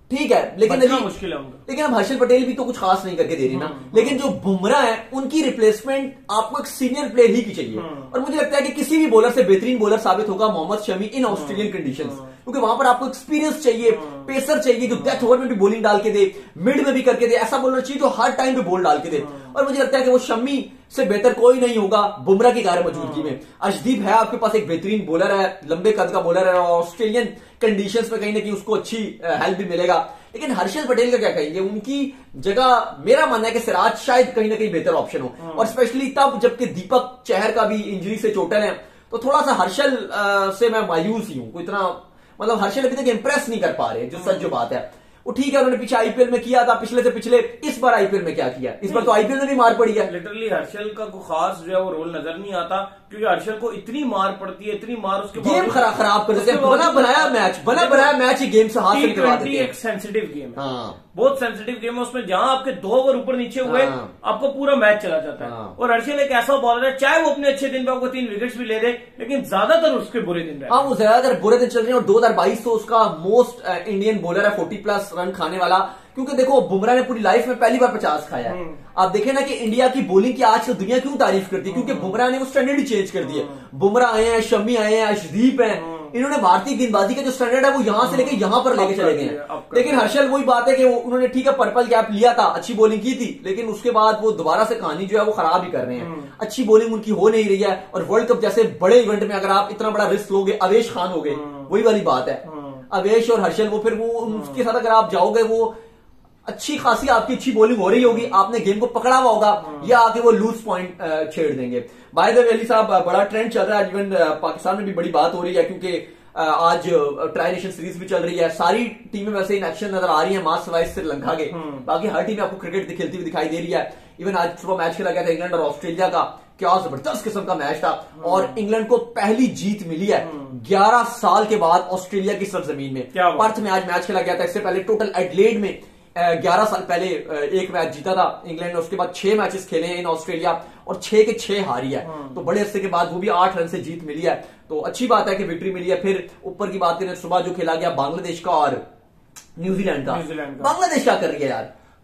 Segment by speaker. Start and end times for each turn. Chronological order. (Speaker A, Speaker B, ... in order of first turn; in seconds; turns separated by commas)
Speaker A: 0.1-1.1, Speaker B: 0.6-1.6, Speaker A: 1.7-50.1, Speaker B: 3.5-4.2, Speaker B: 7.8-8.1, Speaker B: 11.3-12.2, Speaker B: 13.9-14.3, Speaker B: 14.9-15.2, Speaker B: 19.2-19.5, Speaker B: 22.9-23.3, Speaker B: 35.4-35.7, Speaker B: 44.2-44.5, Speaker B: 48.9-49.1, Speaker B: 50.0-58.1, Speaker A: 55.4-59.7, Speaker B: 58.9-60.6, Speaker A: 60.6-61.0, Speaker B: 61.1-70.9, Speaker A: 63.6-64.1, Speaker A: 65.4-65.8, Speaker A: 70.7-105.7, Speaker B: 78.5-78.8, Speaker B: 81.7-82.2, Speaker B: 83.2-83.6, Speaker B: 85.7-86.1, Speaker B: 88.0-90.1, Speaker B: 96.0-96.3, Speaker B: 101.3-101.7, Speaker B: 102.5-102.8, Speaker B: 104.3-104.6, Speaker A: 106.5-148.8, Speaker B: 109.6-109.9, Speaker B: 121.5-121.8, Speaker B: 128.2-128.6, Speaker B: 130.2-130.5, Speaker B: 133.1-133.5, Speaker B: 142.0-142.4, Speaker A: 149.6-151.7, Speaker B: 150.1-150.7